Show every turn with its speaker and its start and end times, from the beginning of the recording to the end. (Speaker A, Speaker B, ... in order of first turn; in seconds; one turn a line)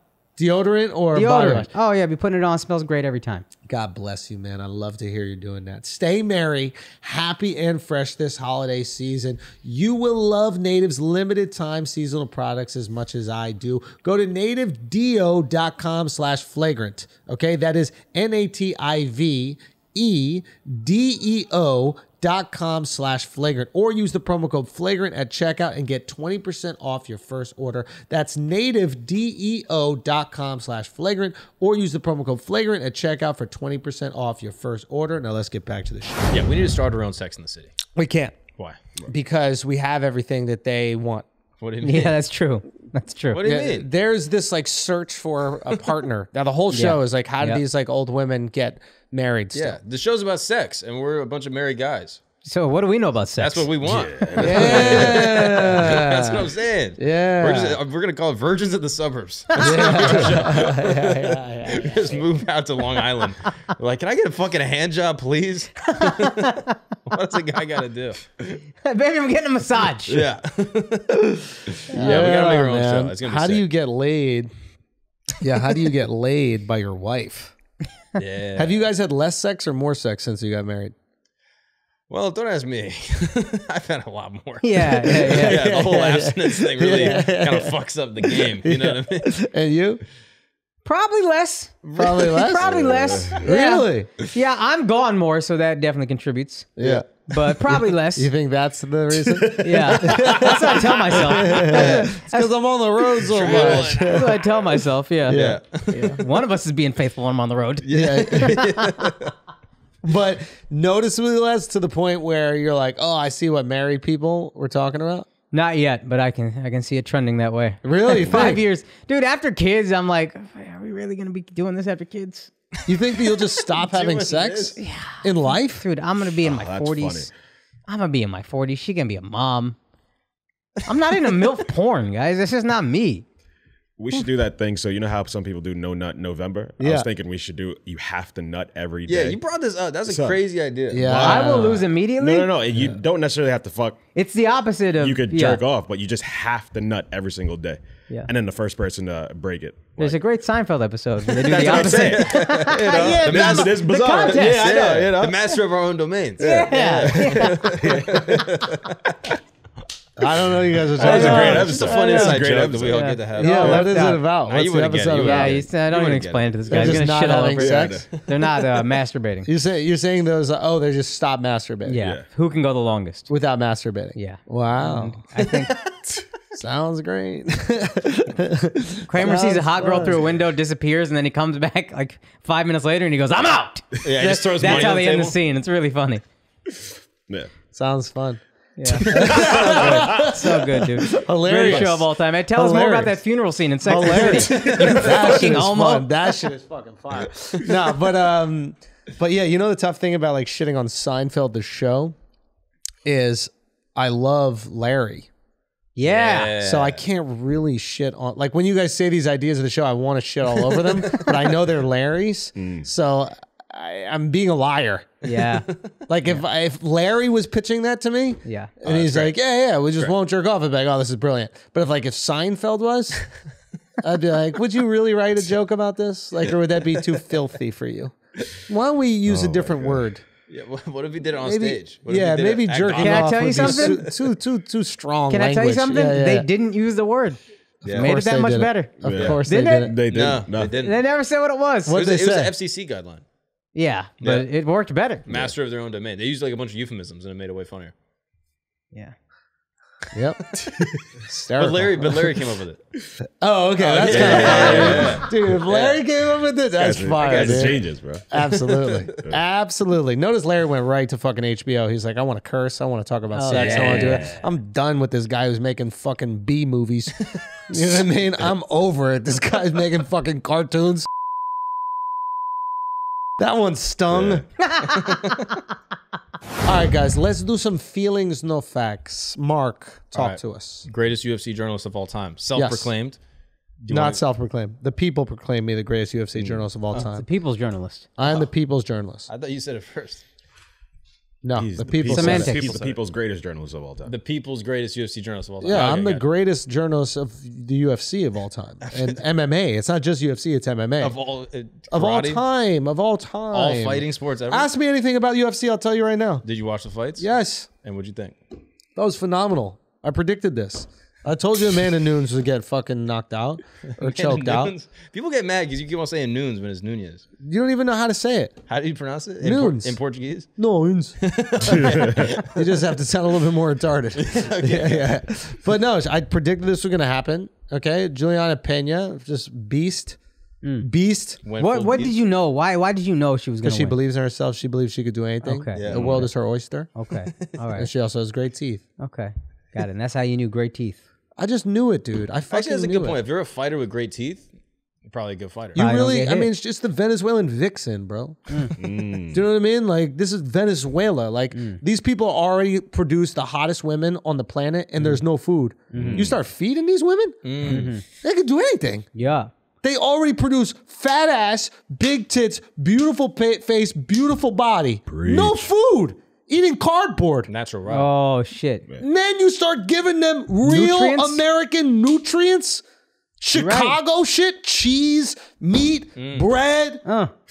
Speaker A: 0.4-1.7
Speaker B: 1.1-3.5
Speaker A: 3.7-36.5
Speaker C: 36.3-37.7
Speaker A: 37.9-38.4
Speaker A: 39.1-41.3
Speaker C: 41.6-42.2
Speaker B: 41.8-43.4
Speaker C: 43.3-43.9
Speaker A: 43.4-49.8
Speaker B: 46.7-47.6
Speaker C: 49.5-52.2
Speaker B: 52.4-53.7
Speaker C: 53.4-66.6
Speaker D: 53.8-55.9
Speaker A: 54.4-57.8
Speaker B: 59.6-60.0
Speaker A: 59.6-62.2
Speaker B: 66.0-66.7
Speaker C: 67.1-68.3
Speaker B: 68.8-70.1
Speaker C: 70.1-73.7
Speaker A: 71.9-74.5
Speaker A: 75.4-77.5
Speaker C: 78.2-78.8
Speaker A: 78.6-80.9
Speaker C: 82.1-89.3
Speaker B: 84.6-85.6
Speaker A: 85.0-90.0
Speaker B: 90.8-96.7
Speaker C: 91.8-92.6
Speaker A: 92.0-92.7
Speaker D: 92.6-93.4
Speaker A: 93.4-94.1
Speaker A: 96.8-97.1
Speaker B: 97.3-98.3
Speaker A: 98.2-104.6
Speaker B: 99.6-102.5
Speaker C: 99.9-102.2
Speaker C: 103.3-104.4
Speaker B: 103.9-109.0
Speaker A: 105.3-106.1
Speaker C: 105.3-106.2
Speaker C: 107.8-109.3
Speaker A: 107.9-108.6
Speaker A: 110.0-115.3
Speaker B: 115.5-122.5
Speaker A: 117.8-118.6
Speaker A: 122.9-125.8
Speaker C: 122.9-124.8
Speaker B: 124.8-127.3
Speaker D: 126.4-127.3
Speaker B: 127.9-129.8
Speaker B: 130.9-133.2
Speaker D: 134.0-139.4
Speaker A: 136.8-137.1
Speaker C: 139.1-141.5
Speaker D: 140.1-140.4
Speaker A: 140.9-141.9
Speaker D: 140.9-144.0
Speaker B: 141.2-142.5
Speaker B: 144.2-145.6
Speaker D: 145.0-150.2
Speaker B: 150.0-155.0
Speaker D: 151.3-155.3
Speaker C: 151.4-158.8
Speaker B: 156.4-157.6
Speaker D: 156.4-158.7
Speaker A: 157.9-158.4
Speaker A: 160.2-161.9
Speaker D: 160.4-163.8
Speaker B: 161.0-164.2
Speaker C: 161.1-163.9
Speaker A: 163.4-165.6
Speaker C: 164.4-166.6
Speaker B: 165.2-169.5
Speaker A: 166.7-168.1
Speaker D: 167.6-168.1
Speaker A: 169.4-172.0
Speaker B: 171.8-173.3
Speaker D: 172.0-172.2
Speaker A: 173.3-175.2
Speaker B: 174.2-175.7
Speaker C: 175.4-175.9
Speaker A: 176.5-180.2
Speaker B: 179.1-183.9
Speaker C: 184.0-185.4
Speaker A: 184.2-184.9
Speaker B: 184.6-186.2
Speaker A: 187.7-188.4
Speaker B: 188.8-196.1
Speaker A: 189.0-193.2
Speaker C: 189.1-189.5
Speaker D: 189.3-190.3
Speaker C: 191.6-191.9
Speaker A: 193.8-202.2
Speaker C: 194.5-195.3
Speaker D: 194.6-195.1
Speaker A: 203.1-205.3
Speaker B: 205.9-206.6
Speaker C: 206.0-207.0
Speaker A: 206.6-215.2
Speaker C: 210.9-211.3
Speaker D: 212.6-212.9
Speaker B: 215.2-215.7
Speaker C: 215.4-215.7
Speaker A: 216.1-223.2
Speaker B: 218.4-218.7
Speaker D: 218.8-219.3
Speaker A: 224.0-230.2
Speaker D: 229.3-230.0
Speaker C: 230.5-234.2
Speaker A: 231.4-236.5
Speaker B: 233.0-234.0
Speaker B: 235.3-237.4
Speaker A: 237.8-239.9
Speaker C: 237.8-238.1
Speaker B: 237.9-238.9
Speaker D: 239.0-240.8
Speaker C: 239.1-239.4
Speaker B: 239.4-239.9
Speaker C: 240.1-240.9
Speaker B: 240.6-242.0
Speaker A: 241.9-242.5
Speaker C: 241.9-243.2
Speaker B: 243.7-245.2
Speaker D: 245.3-245.5
Speaker C: 245.3-247.9
Speaker A: 250.1-250.6
Speaker A: 251.3-252.4
Speaker C: 251.6-252.8
Speaker A: 253.4-271.1
Speaker C: 253.8-256.0
Speaker D: 254.0-255.2
Speaker D: 256.8-258.3
Speaker C: 257.2-257.8
Speaker C: 258.8-259.2
Speaker B: 263.3-264.2
Speaker C: 263.5-264.4
Speaker D: 263.7-264.1
Speaker A: 273.4-274.4
Speaker D: 274.1-274.4
Speaker B: 274.7-275.1
Speaker C: 274.9-275.4
Speaker A: 276.6-280.9
Speaker C: 280.1-283.2
Speaker A: 282.6-282.9
Speaker C: 283.8-284.2
Speaker A: 283.9-287.2
Speaker D: 286.4-286.6
Speaker B: 287.0-288.1
Speaker A: 288.2-289.3
Speaker C: 288.2-288.5
Speaker C: 289.3-290.2
Speaker A: 291.4-292.8
Speaker D: 291.6-294.1
Speaker B: 292.1-292.7
Speaker C: 294.1-296.2
Speaker A: 295.6-301.2
Speaker C: 298.9-299.1
Speaker C: 301.0-302.4
Speaker A: 301.9-306.4
Speaker C: 303.5-304.7
Speaker C: 306.4-307.3
Speaker A: 307.2-307.7
Speaker C: 307.8-308.4
Speaker A: 308.9-314.7
Speaker C: 314.0-317.2
Speaker A: 317.4-318.6
Speaker C: 318.7-320.5
Speaker A: 319.4-320.0
Speaker A: 320.6-321.2
Speaker C: 321.2-322.6
Speaker D: 321.6-322.3
Speaker A: 321.7-330.2
Speaker C: 324.2-325.3
Speaker B: 330.6-330.9
Speaker A: 330.8-331.4
Speaker C: 331.4-332.1
Speaker B: 331.6-334.0
Speaker A: 333.6-336.9
Speaker B: 335.4-336.3
Speaker C: 335.7-336.2
Speaker B: 336.9-337.9
Speaker A: 337.7-338.8
Speaker B: 339.0-341.0
Speaker A: 341.4-343.2
Speaker C: 342.5-344.5
Speaker C: 345.1-345.8
Speaker A: 345.7-348.4
Speaker B: 345.8-346.5
Speaker D: 348.8-349.4
Speaker A: 349.3-357.4
Speaker B: 351.5-351.8
Speaker B: 355.9-356.2
Speaker D: 355.9-356.4
Speaker C: 357.4-357.9
Speaker B: 357.7-358.0
Speaker A: 358.2-359.1
Speaker B: 359.1-359.5
Speaker A: 359.8-367.5
Speaker D: 365.1-365.7
Speaker C: 367.5-368.1
Speaker B: 367.9-368.9
Speaker A: 369.0-372.8
Speaker B: 370.6-371.4
Speaker A: 373.4-377.0
Speaker B: 373.6-373.9
Speaker C: 376.1-376.5
Speaker B: 377.1-377.3